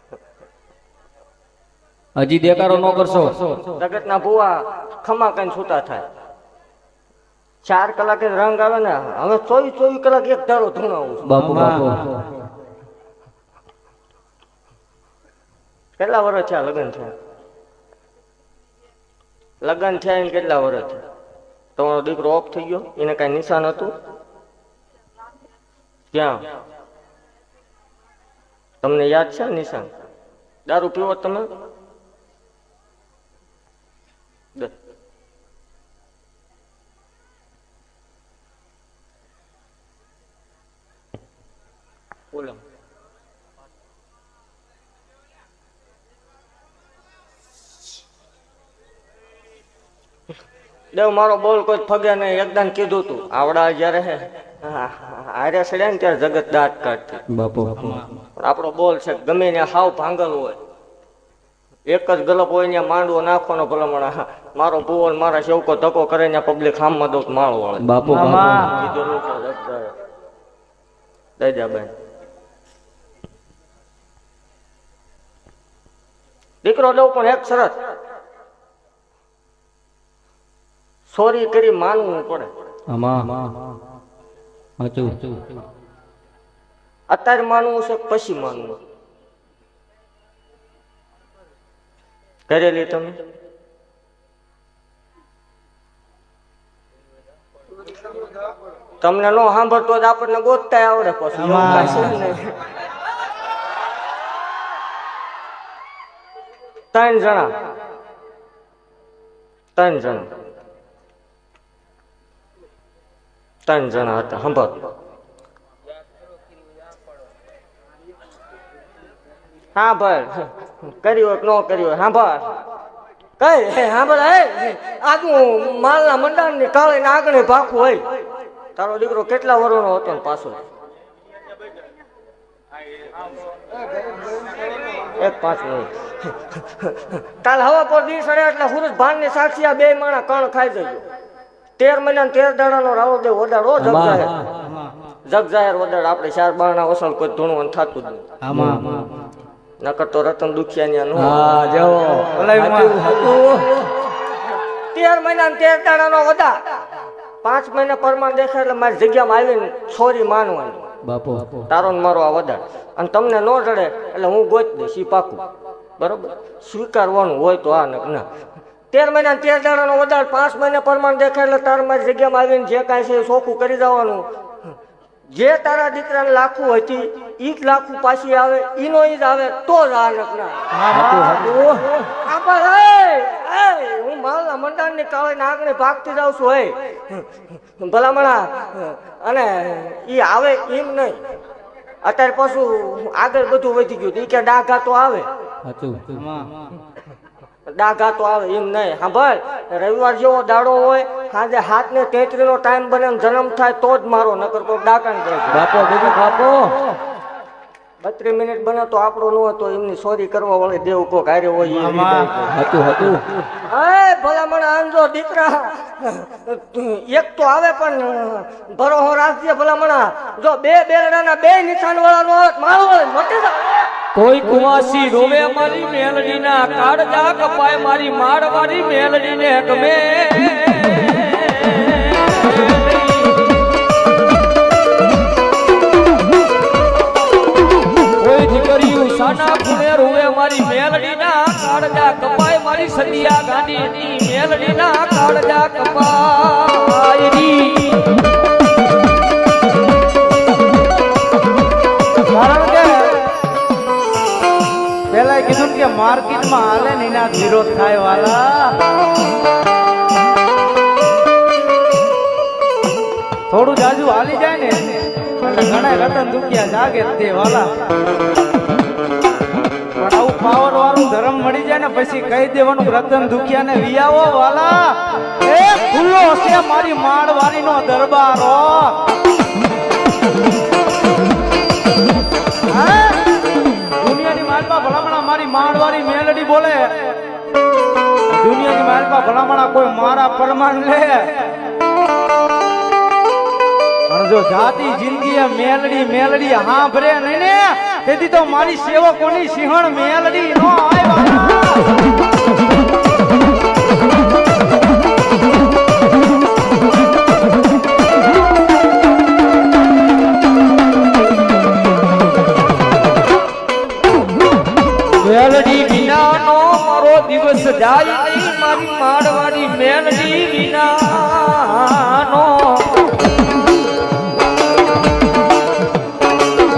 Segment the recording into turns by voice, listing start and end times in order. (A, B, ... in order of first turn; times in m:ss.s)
0:02.2-0:03.6 A
0:03.8-0:06.0 B
0:07.6-0:11.3 B
0:11.2-0:12.2 A
0:11.4-0:12.1 C
0:16.0-0:17.1 B
0:19.6-0:21.0 B
0:21.8-0:23.9 B
0:26.1-0:26.4 B
0:28.8-0:29.9 B
0:30.7-0:31.5 B
0:50.9-0:57.2 B
0:57.3-0:58.0 A
0:57.8-0:58.0 C
0:58.4-1:00.6 B
1:01.9-1:07.8 B
1:07.8-1:08.7 A
1:08.0-1:08.7 C
1:08.6-1:09.9 B
1:11.4-1:11.9 B
1:16.6-1:17.8 B
1:21.1-1:22.5 B
1:22.9-1:23.6 A
1:24.8-1:25.5 A
1:27.1-1:28.8 B
1:32.5-1:33.2 B
1:39.0-1:42.5 B
1:41.4-1:42.2 C
1:46.9-1:47.5 B
1:49.8-1:50.3 B
1:53.6-1:54.8 B
1:59.7-2:02.6 B
2:03.4-2:08.1 B
2:08.8-2:10.6 B
2:15.2-2:21.0 B
2:21.8-2:24.3 B
2:23.8-2:24.5 A
2:24.6-2:24.9 C
2:25.3-2:28.2 B
2:28.4-2:29.2 C
2:28.5-2:29.1 A
2:29.8-2:31.4 B
2:31.1-2:33.9 A
2:32.4-2:33.2 C
2:34.9-2:36.6 B
2:37.4-2:40.8 B
2:41.0-2:41.7 A
2:41.7-2:45.4 B
2:46.0-2:48.3 B
2:48.9-2:54.3 B
2:55.3-3:00.6 B
3:00.7-3:01.6 C
3:00.9-3:02.0 A
3:02.2-3:07.3 B
3:07.8-3:11.2 B
3:12.0-3:15.3 B
3:15.6-3:16.2 A
3:16.1-3:16.6 C
3:17.7-3:25.7 B
3:25.5-3:27.0 A
3:28.0-3:32.4 B
3:31.7-3:32.5 C
3:32.5-3:33.2 A
3:33.6-3:43.9 B
3:44.1-3:53.5 A
3:58.2-4:08.0 A
4:12.3-4:13.1 C
4:15.1-4:18.7 C
4:23.5-4:27.7 C
4:30.0-4:39.0 C
4:42.7-4:43.4 C
4:44.0-4:47.1 C
4:48.3-4:51.3 C
4:54.1-5:01.9 C
5:15.2-5:23.0 A